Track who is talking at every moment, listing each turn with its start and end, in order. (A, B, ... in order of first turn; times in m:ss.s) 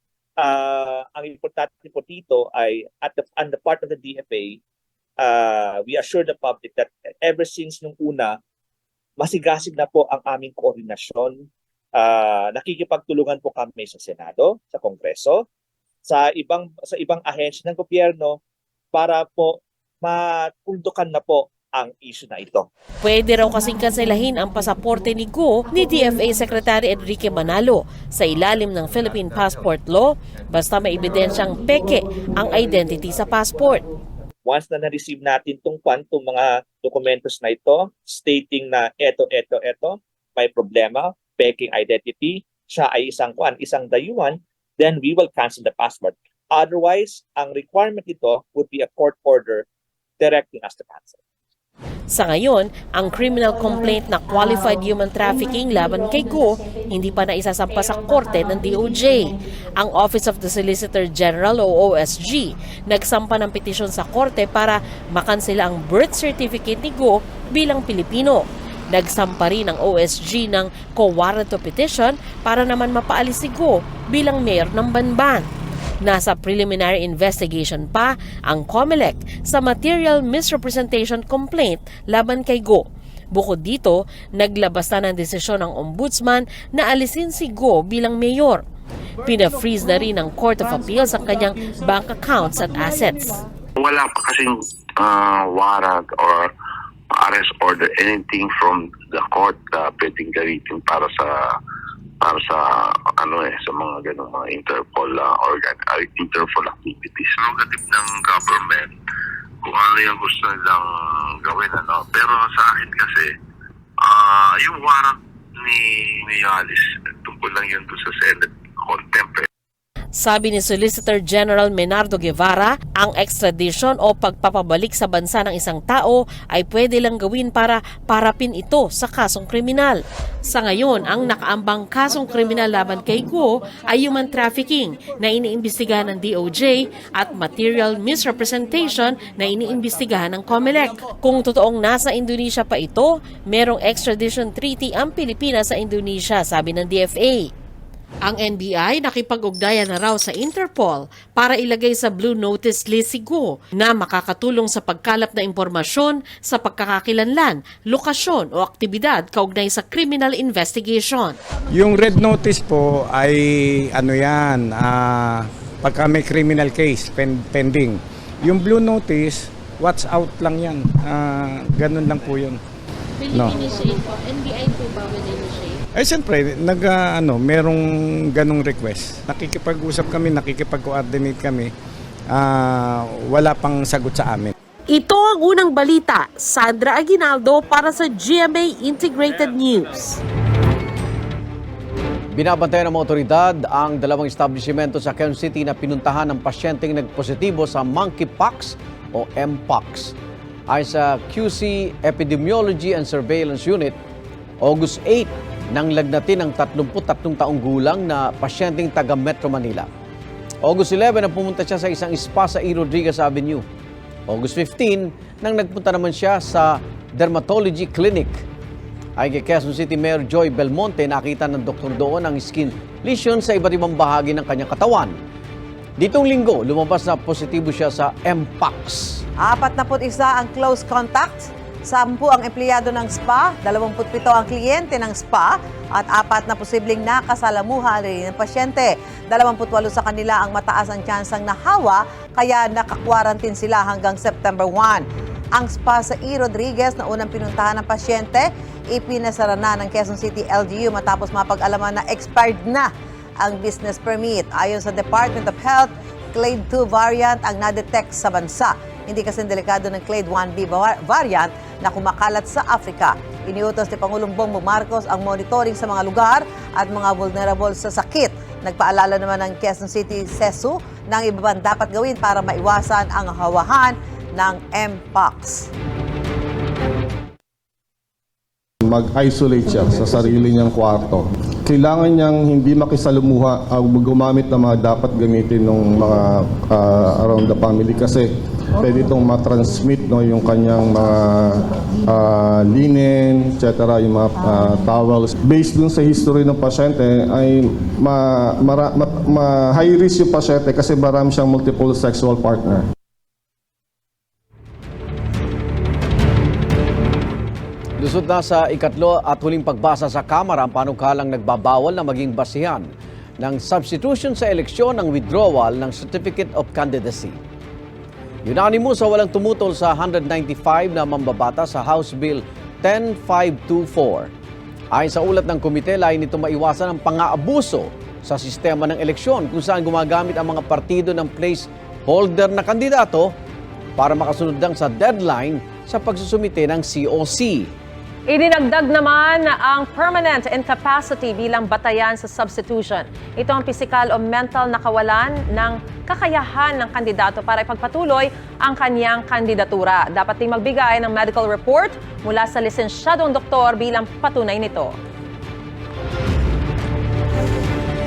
0:00.4-0:04.6 A
0:05.2-0:08.4 A
0:09.2-0:15.4 A
0:16.0-0:18.4 A
0:18.9-0:22.7 A
0:23.0-0:33.8 B
0:34.4-0:49.6 A
0:50.2-0:51.2 A
0:52.1-1:15.5 B
1:16.0-1:28.6 B
1:29.2-1:33.4 B
1:33.8-1:36.5 C
1:37.1-1:41.6 C
1:42.2-1:49.0 C
1:49.6-1:53.3 C
1:54.0-1:59.4 C
2:00.2-2:27.5 B
2:28.2-2:41.4 B
2:41.7-2:52.6 D
2:53.2-2:55.8 B
2:55.9-3:01.7 D
3:02.3-3:04.5 D
3:04.9-3:10.2 B
3:12.3-3:20.1 E
3:20.7-3:24.0 E
3:24.6-3:29.9 E
3:30.6-3:33.6 E
3:34.3-3:38.4 E
3:39.2-3:45.1 E
3:46.0-3:49.2 E
3:49.4-4:35.7 F
4:38.8-5:02.9 G
5:08.0-5:12.9 E
5:13.4-5:17.4 E
5:18.4-5:24.3 E
5:24.9-5:33.3 E
5:34.0-5:37.7 E
5:38.3-5:54.9 H